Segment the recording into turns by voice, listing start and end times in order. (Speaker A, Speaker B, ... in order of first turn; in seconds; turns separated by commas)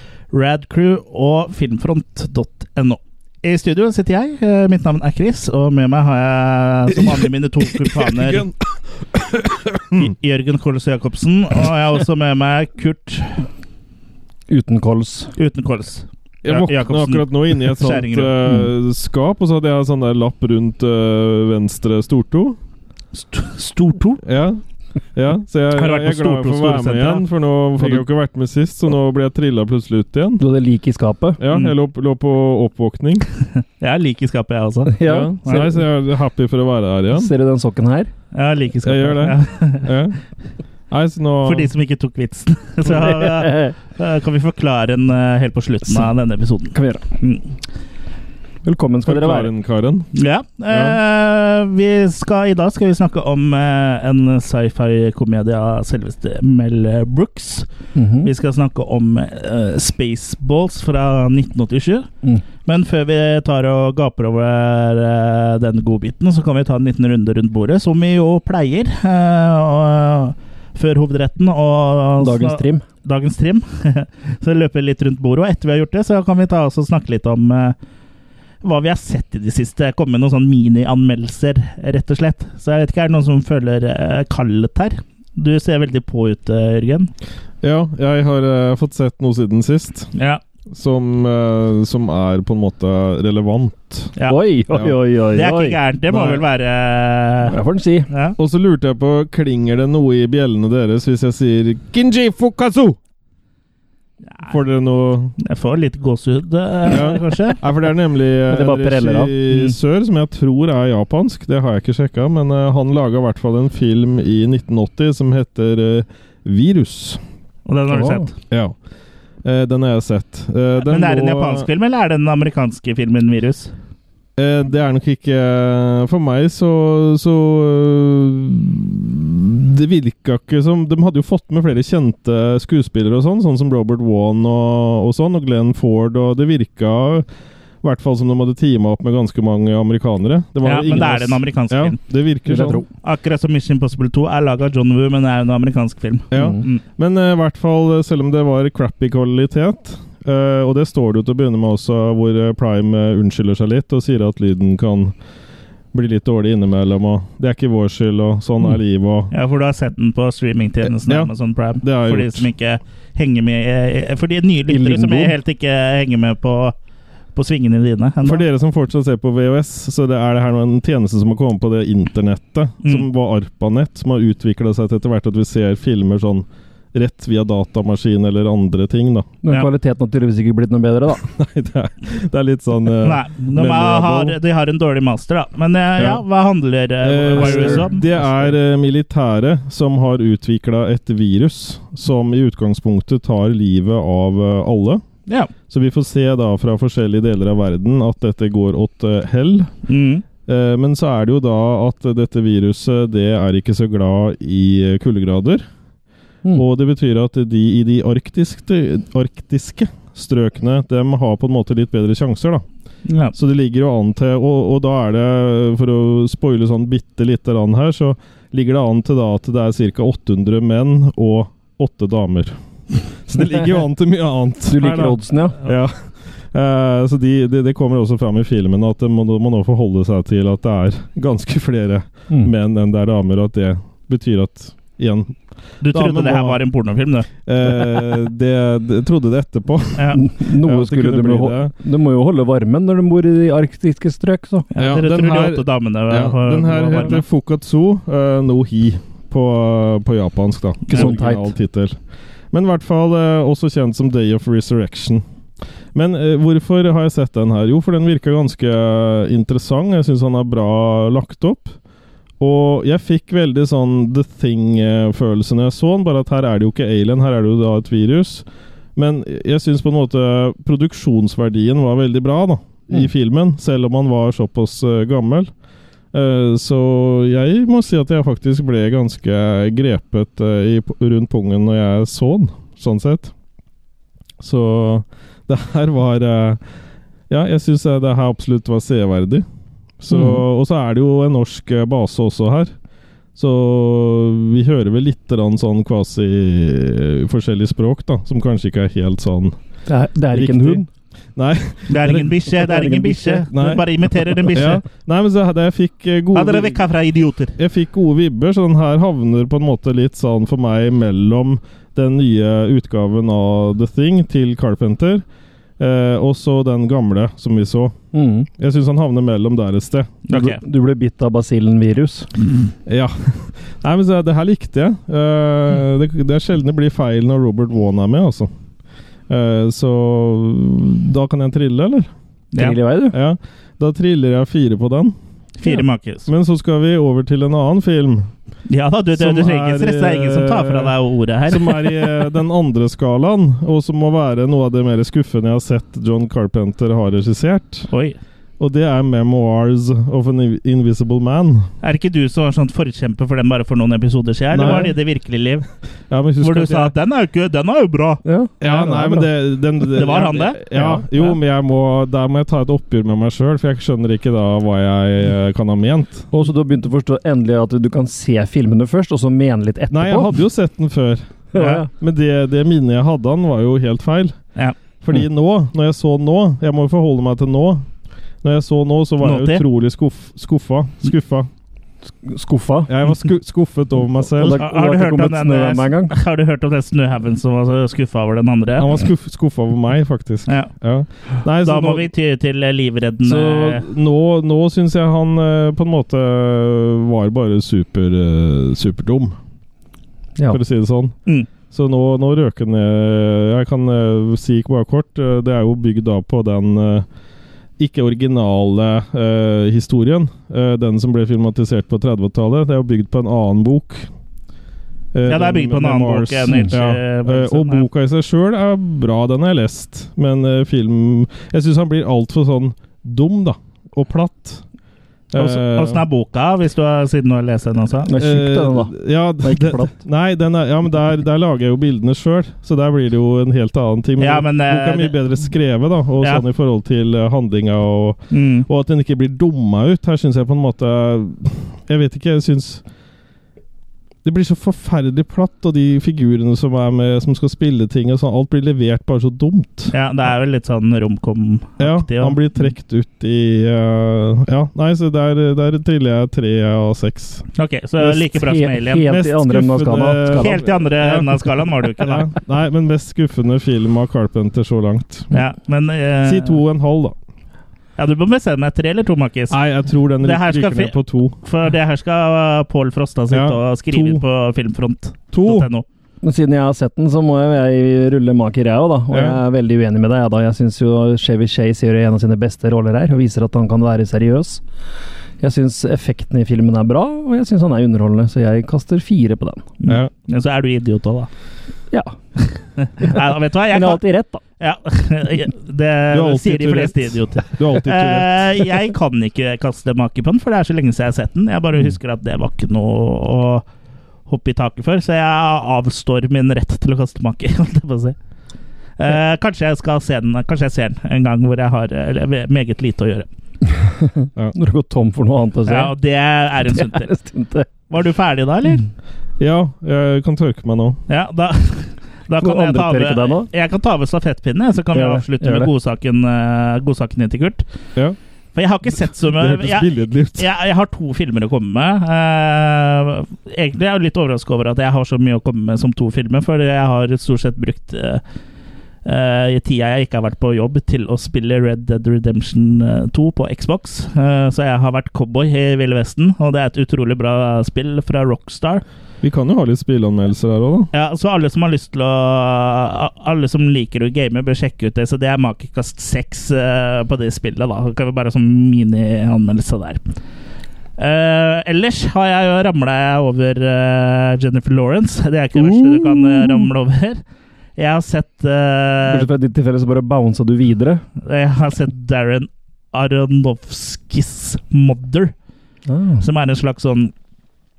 Speaker A: 0.3-8.5, Speaker B: 7.0-10.1, Speaker A: 10.0-13.5, Speaker C: 14.5-15.3, Speaker A: 15.4-18.3, Speaker B: 16.4-22.6, Speaker A: 23.1-24.2, Speaker B: 24.2-24.6, Speaker B: 25.1-30.4, Speaker A: 25.8-27.2, Speaker C: 30.4-31.4, Speaker B: 31.4-33.3, Speaker A: 33.8-35.6, Speaker C: 34.9-35.8, Speaker B: 35.0-37.3, Speaker C: 37.1-38.1, Speaker A: 38.3-39.9, Speaker B: 38.9-40.2, Speaker B: 40.9-41.7, Speaker A: 41.5-47.5, Speaker C: 43.0-43.7, Speaker C: 46.7-47.0, Speaker C: 48.6-49.5, Speaker B: 49.0-50.1, Speaker A: 50.1-57.7, Speaker B: 50.7-51.0, Speaker C: 58.0-58.3, Speaker A: 58.2-62.1, Speaker A: 62.7-77.8, Speaker C: 72.2-72.8, Speaker A: 78.6-87.1, Speaker B: 87.6-90.1, Speaker A: 90.2-90.4, Speaker B: 90.7-94.1, Speaker C: 94.2-96.4, Speaker A: 95.3-97.6, Speaker C: 97.5-98.1, Speaker A: 98.1-98.3, Speaker B: 98.4-103.0, Speaker B: 104.4-105.4, Speaker A: 105.4-107.6, Speaker B: 106.9-117.2, Speaker C: 108.5-109.3, Speaker A: 117.7-118.3, Speaker C: 117.9-118.3, Speaker B: 119.4-121.7, Speaker A: 120.8-123.7, Speaker B: 124.4-137.2, Speaker B: 137.8-142.8, Speaker A: 140.6-142.0, Speaker C: 142.4-142.8, Speaker A: 143.0-146.8, Speaker B: 146.3-155.1, Speaker C: 146.3-146.6, Speaker B: 155.9-159.3, Speaker A: 159.3-166.8, Speaker B: 160.8-162.5, Speaker C: 164.7-165.3, Speaker A: 167.3-168.4, Speaker B: 168.2-179.3, Speaker C: 179.4-181.2, Speaker B: 181.3-184.3, Speaker A: 183.0-188.1, Speaker B: 186.0-186.2, Speaker B: 187.0-195.0, Speaker C: 187.3-187.8, Speaker B: 195.7-199.7, Speaker A: 199.9-200.2, Speaker B: 200.4-205.6, Speaker B: 206.5-212.6, Speaker A: 213.1-213.3, Speaker B: 213.3-222.6, Speaker B: 223.2-225.9, Speaker C: 224.7-225.6, Speaker B: 226.5-235.4, Speaker A: 235.8-237.3, Speaker B: 235.9-236.6, Speaker B: 237.4-241.7, Speaker A: 240.0-240.2, Speaker C: 240.1-244.7, Speaker A: 244.7-247.2, Speaker B: 244.8-251.9, Speaker C: 250.9-251.5, Speaker B: 252.5-255.2, Speaker B: 255.9-261.8, Speaker B: 262.4-268.4, Speaker B: 268.9-275.5, Speaker B: 276.1-283.3, Speaker B: 284.4-286.6, Speaker B: 287.3-289.4, Speaker B: 290.0-292.7, Speaker C: 290.1-290.4, Speaker B: 293.4-299.6, Speaker C: 299.9-300.9, Speaker B: 300.3-300.8, Speaker B: 301.4-302.5, Speaker A: 301.9-304.8, Speaker C: 302.5-303.5, Speaker B: 303.5-303.8, Speaker B: 304.4-306.8, Speaker A: 306.3-307.6, Speaker B: 307.6-315.2, Speaker B: 315.8-317.9, Speaker C: 318.1-318.5, Speaker B: 318.6-320.2, Speaker A: 320.3-320.6, Speaker C: 320.3-322.3, Speaker B: 322.9-328.5, Speaker B: 329.3-332.1, Speaker C: 332.6-333.1, Speaker B: 333.1-335.1, Speaker A: 335.6-336.3, Speaker B: 336.2-338.3, Speaker A: 338.7-342.1, Speaker B: 339.1-340.9, Speaker B: 341.5-347.9, Speaker A: 347.9-348.2, Speaker B: 348.6-351.7, Speaker A: 351.8-355.6, Speaker B: 354.5-354.9, Speaker C: 354.6-354.9, Speaker B: 356.1-356.9, Speaker A: 356.4-358.2, Speaker C: 358.2-359.3, Speaker B: 358.6-366.3, Speaker A: 360.0-360.6, Speaker C: 360.7-361.1, Speaker C: 366.3-370.4, Speaker B: 369.9-374.4, Speaker C: 371.5-371.9, Speaker B: 375.0-377.8, Speaker B: 378.4-381.5, Speaker A: 379.2-379.6, Speaker C: 382.2-382.9, Speaker B: 382.9-384.6, Speaker C: 384.4-386.1, Speaker A: 384.4-388.9, Speaker B: 388.8-392.1, Speaker A: 391.6-393.8, Speaker B: 393.2-399.4, Speaker B: 400.5-401.1, Speaker B: 401.7-407.1, Speaker B: 407.8-414.1, Speaker B: 415.1-424.6, Speaker A: 415.3-417.9, Speaker B: 425.3-426.0, Speaker A: 425.4-428.1, Speaker C: 428.1-429.9, Speaker B: 428.1-442.8, Speaker A: 434.2-435.1, Speaker A: 438.3-438.6, Speaker B: 444.2-449.9, Speaker A: 449.9-452.4, Speaker B: 451.8-457.4, Speaker A: 457.6-459.1, Speaker C: 458.0-460.6, Speaker B: 459.1-465.3, Speaker A: 460.4-462.2, Speaker A: 465.3-466.6, Speaker B: 466.2-467.1, Speaker A: 468.0-469.6, Speaker B: 469.5-471.4, Speaker A: 470.2-475.8, Speaker B: 473.3-474.2, Speaker B: 475.3-475.7, Speaker C: 476.2-484.6, Speaker B: 479.1-479.4, Speaker C: 485.4-489.8, Speaker A: 489.8-491.3, Speaker C: 491.9-492.2, Speaker A: 492.5-494.0, Speaker C: 493.7-494.4, Speaker A: 494.6-503.6, Speaker B: 496.1-498.7, Speaker A: 504.3-508.1, Speaker A: 509.0-513.3, Speaker C: 513.6-515.9, Speaker A: 515.7-517.1, Speaker C: 516.7-517.7, Speaker A: 517.9-518.9, Speaker B: 519.4-521.0, Speaker A: 521.1-527.6, Speaker C: 522.4-523.5, Speaker C: 524.9-525.7, Speaker A: 528.5-538.2, Speaker B: 529.2-530.5, Speaker A: 539.0-548.8, Speaker B: 549.2-550.9, Speaker A: 550.9-560.0, Speaker A: 561.0-567.2, Speaker C: 565.5-566.7, Speaker A: 567.8-569.3, Speaker C: 569.0-571.0, Speaker A: 571.2-575.3, Speaker C: 575.9-576.2, Speaker A: 576.2-577.1